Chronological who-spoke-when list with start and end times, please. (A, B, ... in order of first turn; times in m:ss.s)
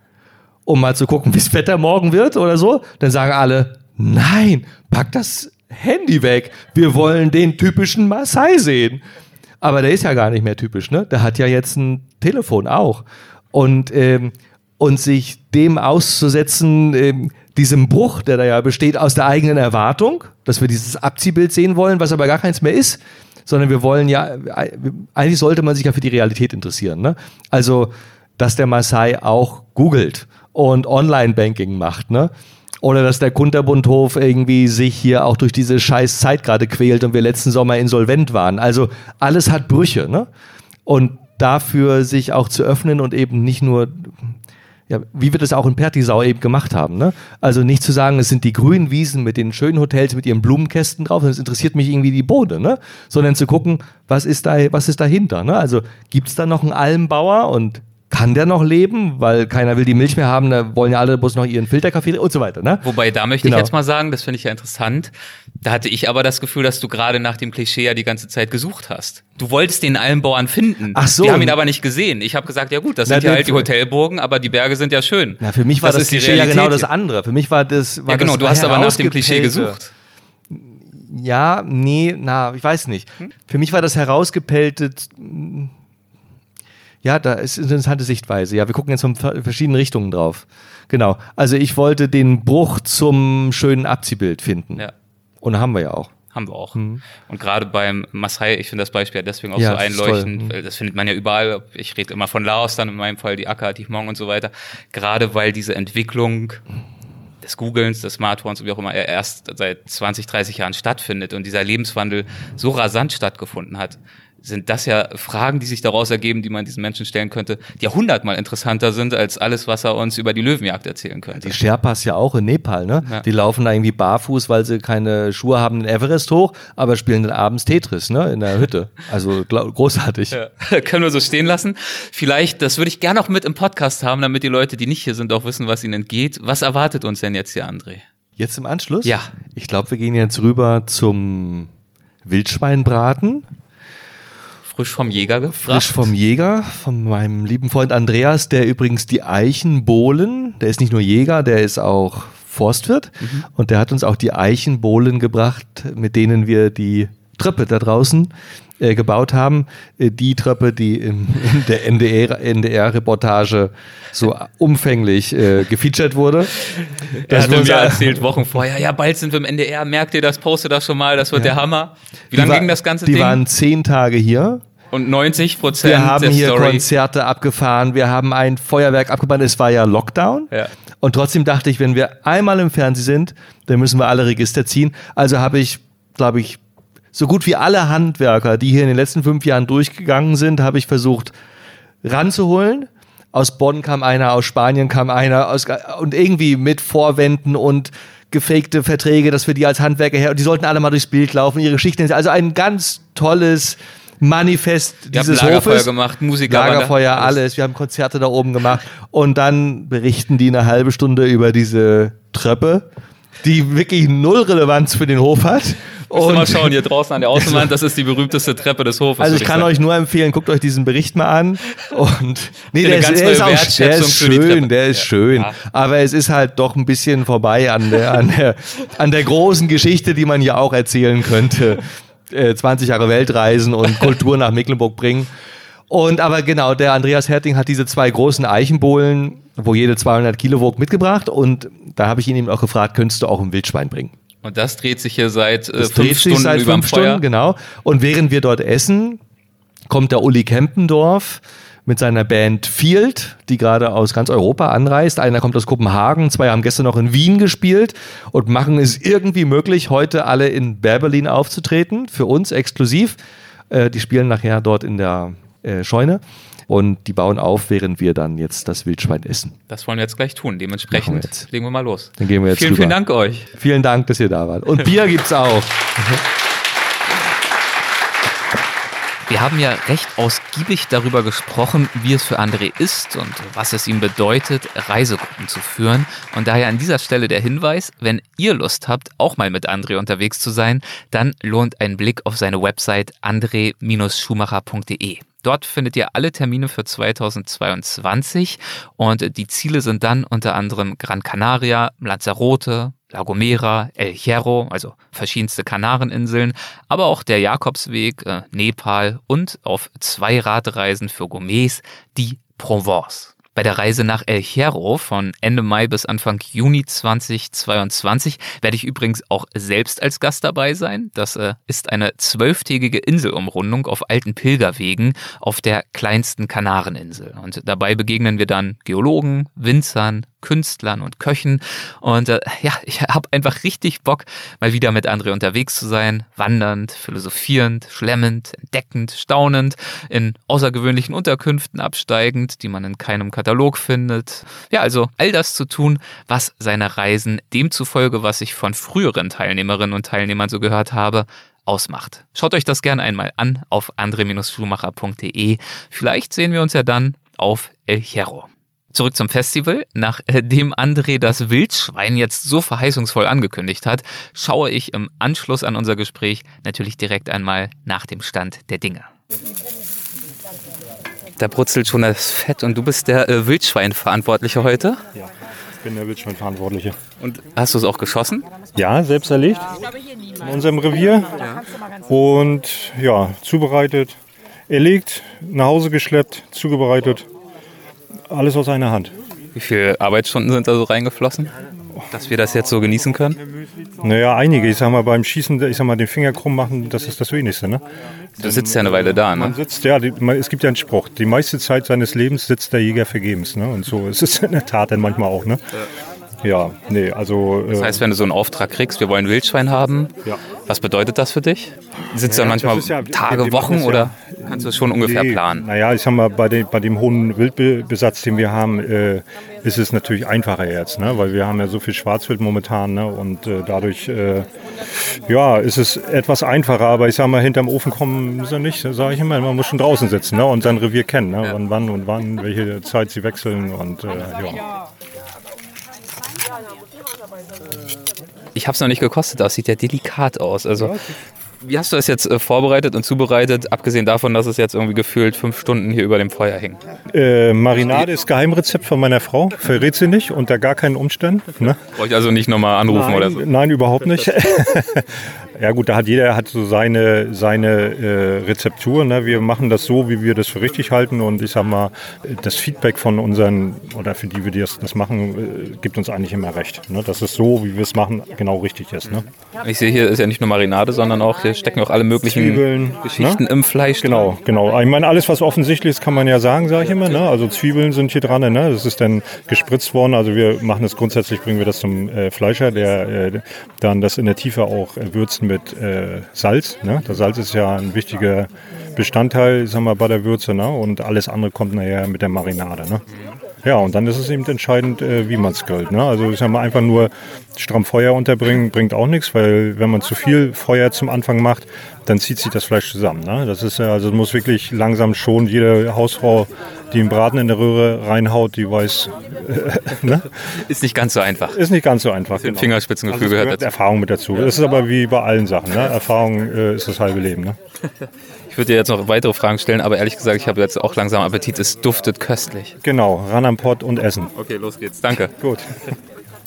0:00.6-0:09.0 A
0:09.6-0:40.3 A
0:40.8-0:44.4 A
0:44.9-1:02.8 A
1:02.8-1:16.9 B
1:03.4-1:03.7 A
1:10.9-1:11.6 A
1:13.0-1:13.7 A
1:15.4-1:19.8 A
1:18.1-1:19.9 B
1:20.5-1:25.7 A
1:27.0-1:34.9 A
1:35.4-1:36.1 A
1:36.3-1:46.6 B
1:36.7-1:37.0 A
1:39.6-1:40.5 A
1:47.4-2:01.6 B
2:01.3-2:10.4 A
2:10.3-2:18.0 B
2:18.4-2:21.7 A
2:19.0-2:19.3 B
2:22.2-2:23.5 A
2:24.7-2:26.1 B
2:25.5-2:46.6 A
2:47.2-2:53.4 B
2:47.3-2:48.3 A
2:52.3-2:54.6 A
2:54.9-2:56.8 B
2:55.8-3:06.6 A
3:07.1-3:11.3 A
3:12.0-3:25.9 A
3:25.1-3:27.4 B
3:26.4-3:32.9 A
3:33.4-3:36.8 A
3:36.1-3:39.7 B
3:37.3-3:37.7 A
3:39.2-3:55.3 A
3:42.8-3:45.6 B
3:55.9-4:04.1 A
4:04.4-4:07.2 B
4:05.8-4:09.2 A
4:09.9-4:23.2 A
4:23.7-4:29.6 A
4:29.7-4:33.5 B
4:30.9-4:31.5 A
4:32.2-4:33.0 A
4:33.5-4:36.2 A
4:39.3-6:09.1 B
6:11.4-6:15.0 B
6:15.8-6:17.0 C
6:17.2-6:18.4 B
6:18.8-6:19.7 C
6:20.4-6:21.4 C
6:22.1-6:24.2 C
6:24.7-6:27.3 C
6:28.3-6:29.1 C
6:29.5-6:31.5 B
6:32.1-6:33.4 B
6:34.0-6:37.8 C
6:38.4-6:45.6 C
6:38.4-6:39.5 B
6:46.4-6:48.0 C
6:47.7-6:50.1 B
6:50.6-6:55.7 B
6:52.3-7:04.5 C
7:05.2-7:14.6 C
7:18.5-7:21.0 B
7:21.6-7:26.8 B
7:27.1-7:31.8 C
7:31.9-7:33.4 B
7:32.8-7:49.3 C
7:49.0-7:54.4 B
7:52.2-7:53.4 C
7:54.0-8:13.0 C
8:13.6-8:30.3 C
8:30.5-8:31.6 B
8:31.5-8:37.6 C
8:32.3-8:33.7 B
8:38.5-8:42.8 B
8:42.8-8:44.3 C
8:44.3-8:45.3 B
8:45.4-8:45.7 C